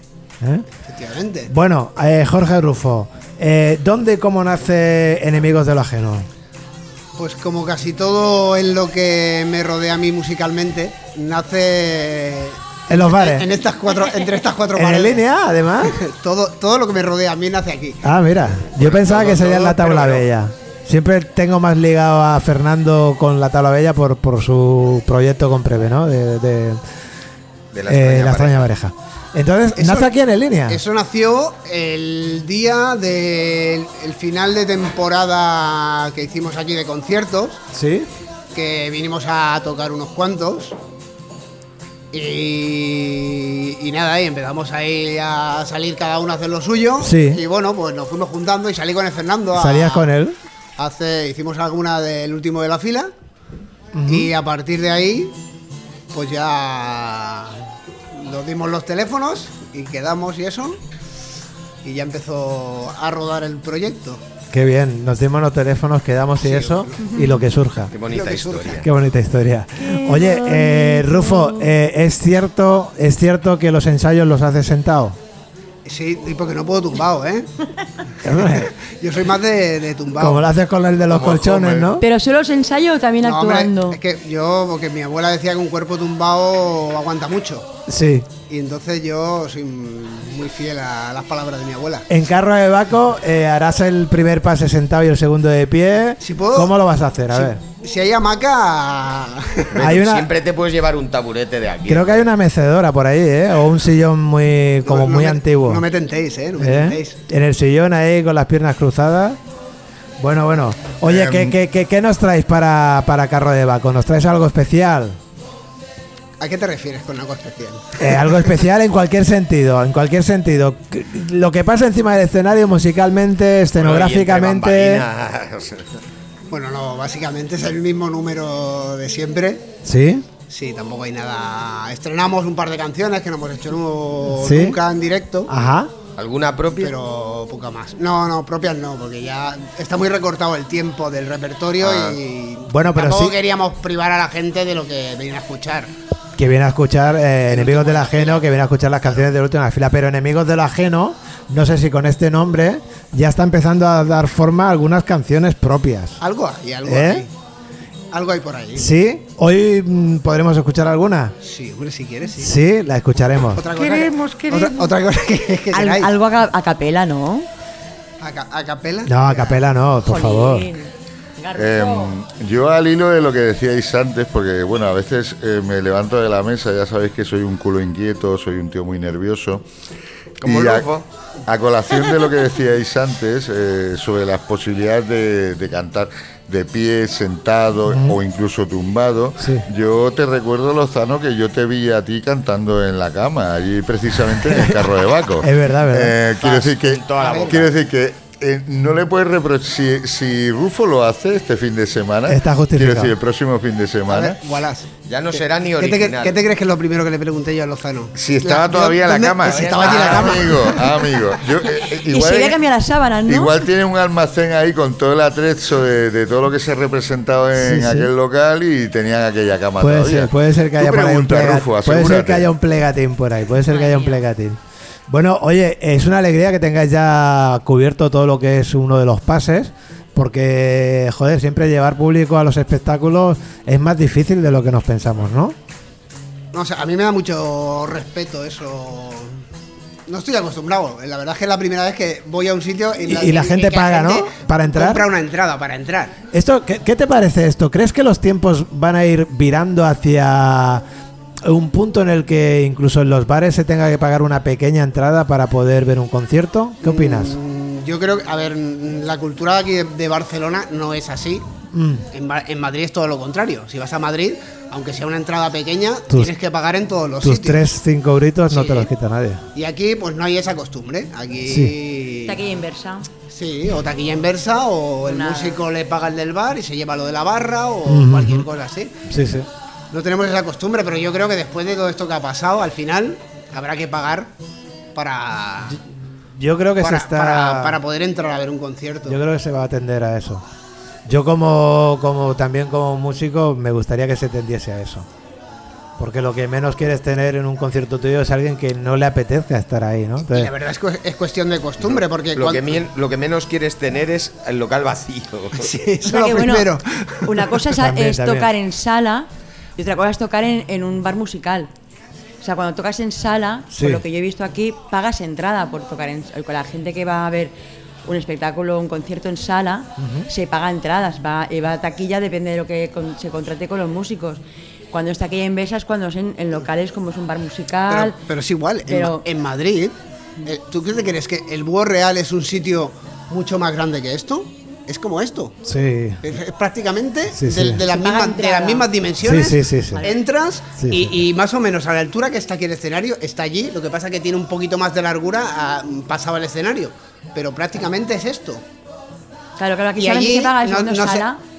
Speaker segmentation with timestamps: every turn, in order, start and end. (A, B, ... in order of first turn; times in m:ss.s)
0:00.8-0:01.5 A
0:01.5-0:06.3 B
0:07.2-0:15.2 A
0:12.9-0:13.4 B
0:14.7-0:15.9 B
0:15.8-0:18.0 A
0:18.0-0:26.8 B
0:18.8-0:19.2 C
0:18.8-0:20.2 A
0:27.7-0:28.7 C
0:27.9-0:30.8 B
0:29.8-0:30.1 A
0:30.7-0:37.6 A
0:37.7-0:38.1 B
0:38.5-0:40.8 A
0:42.1-0:50.1 A
0:47.0-0:47.4 B
0:49.6-0:50.4 B
0:50.8-0:53.1 A
0:53.9-0:54.3 B
0:54.1-0:55.3 A
0:56.1-0:57.6 A
0:58.1-1:00.8 A
1:01.8-1:04.2 A
1:04.5-1:07.9 B
1:06.4-1:07.2 A
1:07.9-1:08.9 C
1:08.0-1:08.8 A
1:08.8-1:15.2 B
1:09.8-1:11.7 D
1:15.8-1:17.5 A
1:18.2-1:18.7 B
1:18.5-1:20.5 A
1:20.2-1:22.0 B
1:21.1-1:21.9 E
1:22.0-1:24.0 D
1:23.2-1:27.7 A
1:27.9-1:28.3 B
1:28.5-1:32.0 A
1:32.1-1:37.6 B
1:36.2-1:36.7 A
1:37.3-1:39.7 A
1:39.7-1:42.3 C
1:39.8-1:40.2 B
1:41.9-1:45.8 B
1:44.8-1:47.2 A
1:46.6-1:49.4 B
1:50.2-1:55.2 B
1:51.0-1:51.6 E
1:56.4-1:58.4 A
1:58.0-2:05.0 B
2:03.8-2:05.9 C
2:06.5-2:09.7 A
2:09.8-2:10.2 B
2:10.5-2:15.5 A
2:14.4-2:14.8 B
2:15.5-2:15.9 B
2:16.2-2:16.9 C
2:16.8-2:25.9 A
2:21.8-2:22.2 C
2:22.7-2:23.3 B
2:26.4-2:36.2 B
2:27.5-2:28.5 A
2:36.2-2:37.3 A
2:36.8-2:37.2 B
2:38.1-2:38.9 A
2:38.8-2:41.3 B
2:41.4-2:42.5 A
2:42.4-2:43.6 B
2:43.5-2:46.1 A
2:43.8-2:44.9 D
2:45.7-2:47.5 D
2:48.2-2:49.6 A
2:49.1-2:50.7 B
2:50.0-2:52.1 D
2:51.5-2:59.6 E
3:00.4-3:01.0 C
3:00.4-3:00.9 E
3:01.4-3:24.4 E
3:07.9-3:08.2 B
3:09.4-3:09.6 B
3:14.5-3:14.8 B
3:15.4-3:16.2 B
3:16.4-3:17.7 C
3:17.2-3:17.6 A
3:22.3-3:23.1 B
3:24.1-3:30.8 A
3:25.0-3:26.4 C
3:28.1-3:32.6 E
3:29.4-3:30.8 C
3:32.1-3:33.6 D
3:33.2-3:42.5 E
3:37.5-3:38.1 B
3:39.8-3:44.6 B
3:43.6-3:44.2 D
3:45.1-3:55.6 B
3:56.5-3:59.4 A
4:00.1-4:06.2 A
4:03.1-4:05.0 B
4:06.3-4:10.8 B
4:11.4-4:17.4 B
4:16.8-4:21.4 A
4:21.7-4:22.0 B
4:22.1-4:27.7 A
4:27.2-4:29.4 B
4:28.5-4:28.9 A
4:29.5-4:32.4 A
4:31.5-4:31.7 B
4:32.2-4:33.1 D
4:33.3-4:39.0 A
4:35.0-4:35.6 D
4:37.8-4:38.5 B
4:39.1-4:39.5 B
4:39.9-4:44.3 A
4:44.9-4:45.8 A
4:46.3-4:47.8 B
4:46.8-4:49.2 A
4:49.1-4:50.4 B
4:51.1-4:55.1 B
4:56.0-5:00.5 B
5:00.2-5:02.8 A
5:01.8-5:05.7 C
5:05.6-5:07.6 A
5:06.1-5:06.7 D
5:07.2-5:11.7 D
5:07.8-5:08.5 B
5:12.4-5:17.5 D
5:13.7-5:14.0 B
5:18.0-5:28.2 D
5:20.0-5:20.3 B
5:27.9-5:35.6 A
5:28.9-5:29.2 D
5:35.6-5:36.2 B
5:36.2-5:48.6 A
5:37.3-5:37.8 B
5:37.8-5:38.9 D
5:39.2-5:40.0 B
5:40.8-5:41.2 B
5:49.6-5:51.4 D
5:50.0-5:51.3 A